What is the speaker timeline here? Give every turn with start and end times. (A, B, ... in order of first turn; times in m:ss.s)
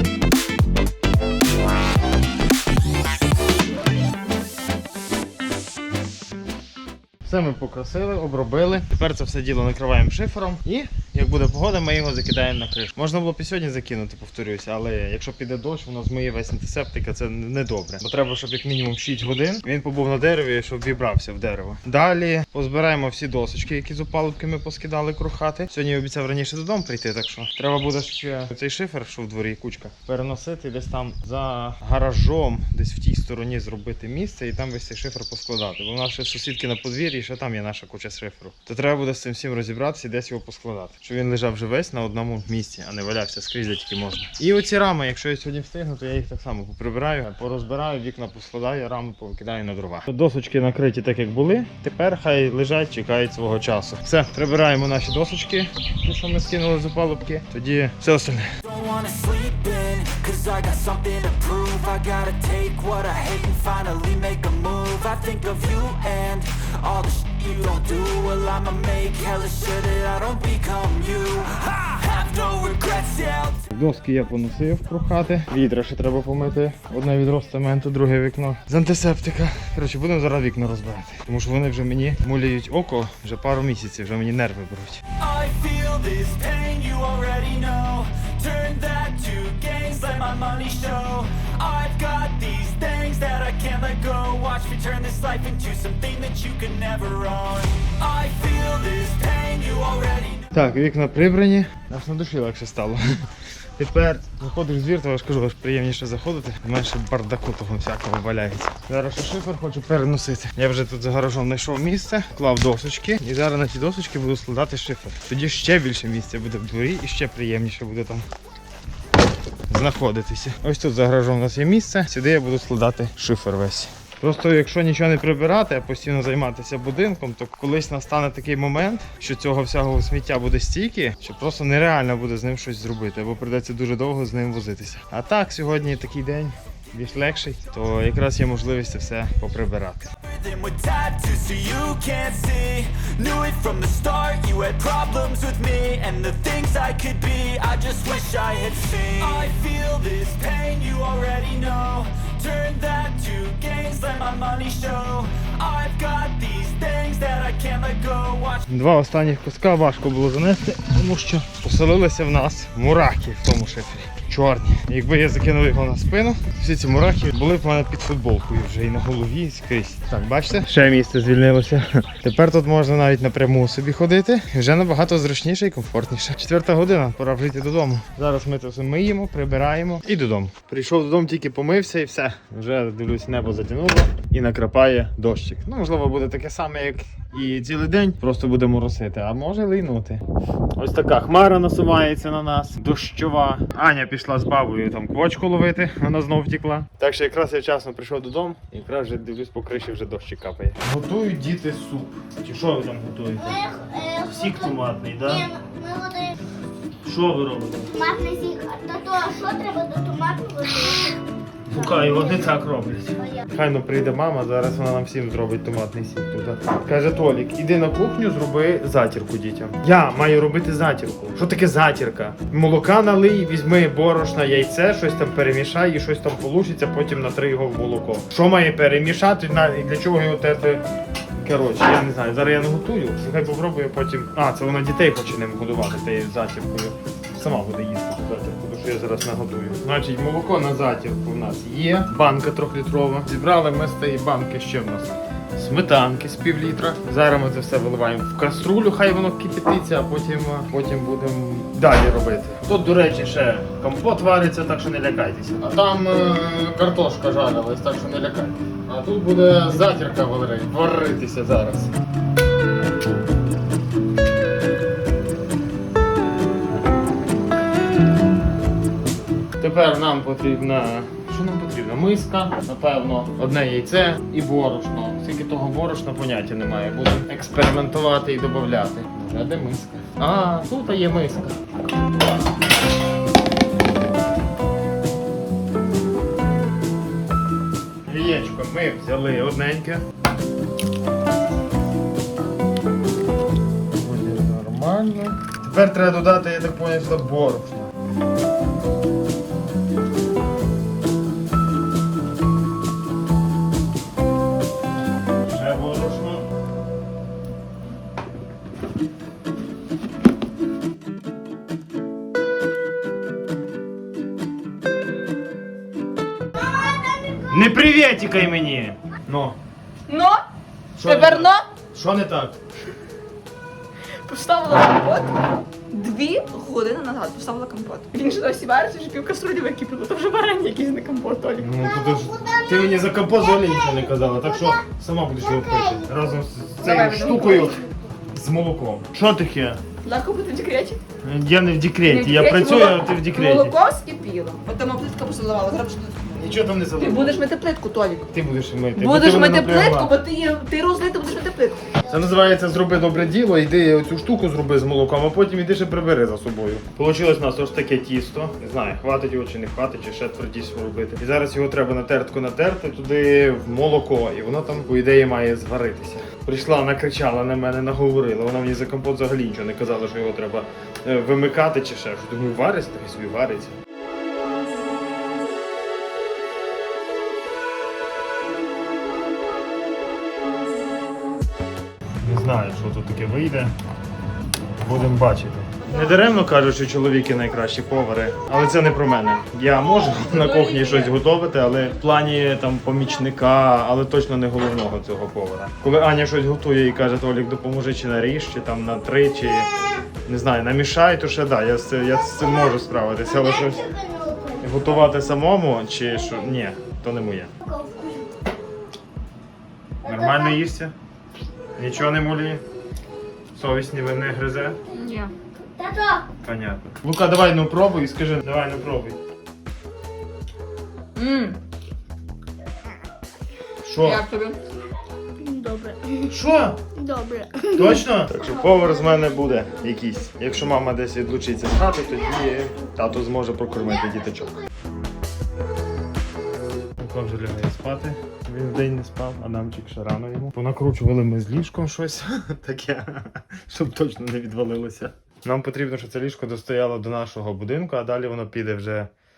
0:07.2-0:58.5 A
0:58.6-1:13.6 B
1:13.7-1:25.0 A
1:25.2-1:40.5 B
1:40.5-1:58.3 A
1:59.7-2:20.1 A
2:20.2-2:38.6 B
2:38.7-3:10.2 A
3:10.8-3:23.6 A
3:23.4-3:26.4 C
3:24.2-3:25.5 A
3:27.0-3:27.9 A
3:27.9-3:31.2 C
3:31.7-3:50.8 A
3:31.8-3:32.5 C
3:51.4-4:21.9 A
4:29.6-4:41.6 A
4:48.1-4:50.1 A
4:53.9-4:57.9 A
5:05.4-5:06.5 A
5:17.5-5:19.6 A
5:20.1-5:20.4 D
5:21.0-5:22.6 A
5:21.0-5:21.7 D
5:24.3-5:25.4 D
5:25.9-5:31.7 D
5:31.6-5:39.8 A
5:32.0-5:34.8 C
5:35.4-5:36.1 C
5:36.8-5:37.8 D
5:37.3-5:37.7 C
5:40.0-5:41.0 D
5:41.2-5:43.8 A
5:42.1-5:46.3 D
5:46.3-5:47.4 A
5:47.0-5:48.3 D
5:48.3-5:50.1 A
5:49.0-5:51.9 D
5:52.1-6:13.8 A
6:22.2-6:23.8 A
6:24.8-6:43.9 A
6:30.4-6:31.1 D
6:42.2-6:45.0 C
6:44.6-6:47.5 A
6:47.6-6:48.3 C
6:50.0-6:50.6 C
6:50.0-6:51.0 A
6:51.8-6:52.6 A
6:53.5-6:54.8 A
6:54.9-6:55.3 D
6:55.6-6:56.3 C
6:56.4-6:59.2 A
7:01.2-7:01.6 D
7:03.8-7:04.2 A
7:04.0-7:04.6 D
7:05.4-7:06.3 C
7:06.3-7:06.8 A
7:07.0-7:07.7 C
7:07.7-7:14.5 A
7:17.0-7:29.1 A